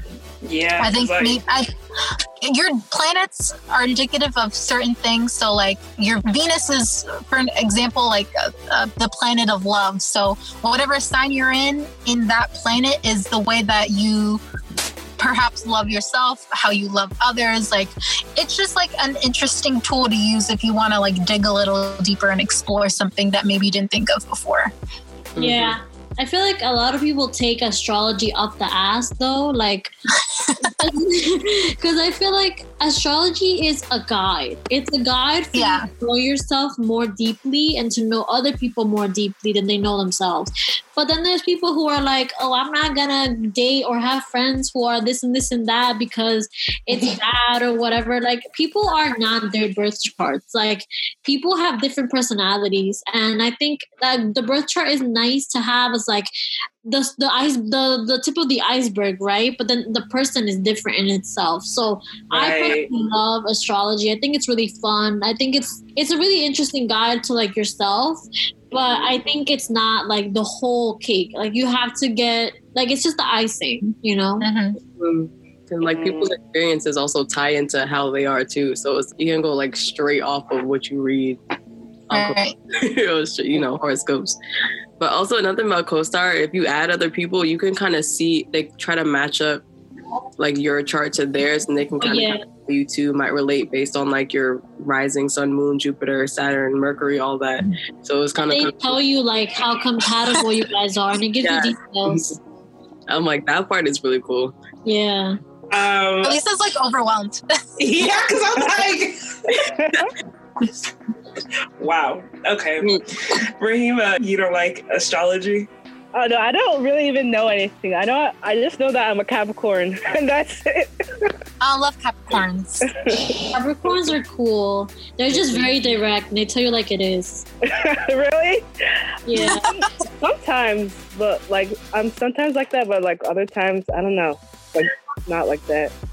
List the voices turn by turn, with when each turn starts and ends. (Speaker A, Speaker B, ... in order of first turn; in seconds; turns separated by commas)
Speaker A: 0.4-1.4, Speaker B: 0.8-14.4, Speaker B: 15.2-24.7, Speaker C: 25.4-25.8, Speaker D: 25.4-29.9, Speaker B: 30.4-30.9, Speaker D: 30.6-56.3, Speaker B: 35.5-35.9, Speaker D: 56.9-74.5, Speaker A: 62.3-62.9, Speaker A: 68.7-69.2, Speaker B: 74.4-74.8, Speaker C: 75.0-81.4, Speaker A: 75.9-76.3, Speaker C: 82.1-84.4, Speaker B: 82.1-82.6, Speaker C: 85.0-89.6, Speaker C: 90.4-99.0, Speaker D: 92.0-92.4, Speaker D: 98.4-102.3, Speaker C: 101.4-102.3, Speaker C: 103.1-104.5, Speaker D: 104.8-105.4, Speaker A: 105.7-106.4, Speaker B: 106.2-108.1, Speaker A: 107.8-109.6, Speaker E: 109.7-110.1, Speaker A: 111.8-115.7, Speaker E: 116.1-121.3, Speaker B: 121.6-122.9, Speaker E: 122.9-123.4, Speaker D: 123.5-127.5, Speaker E: 127.7-135.9, Speaker D: 129.3-129.7, Speaker B: 129.4-129.9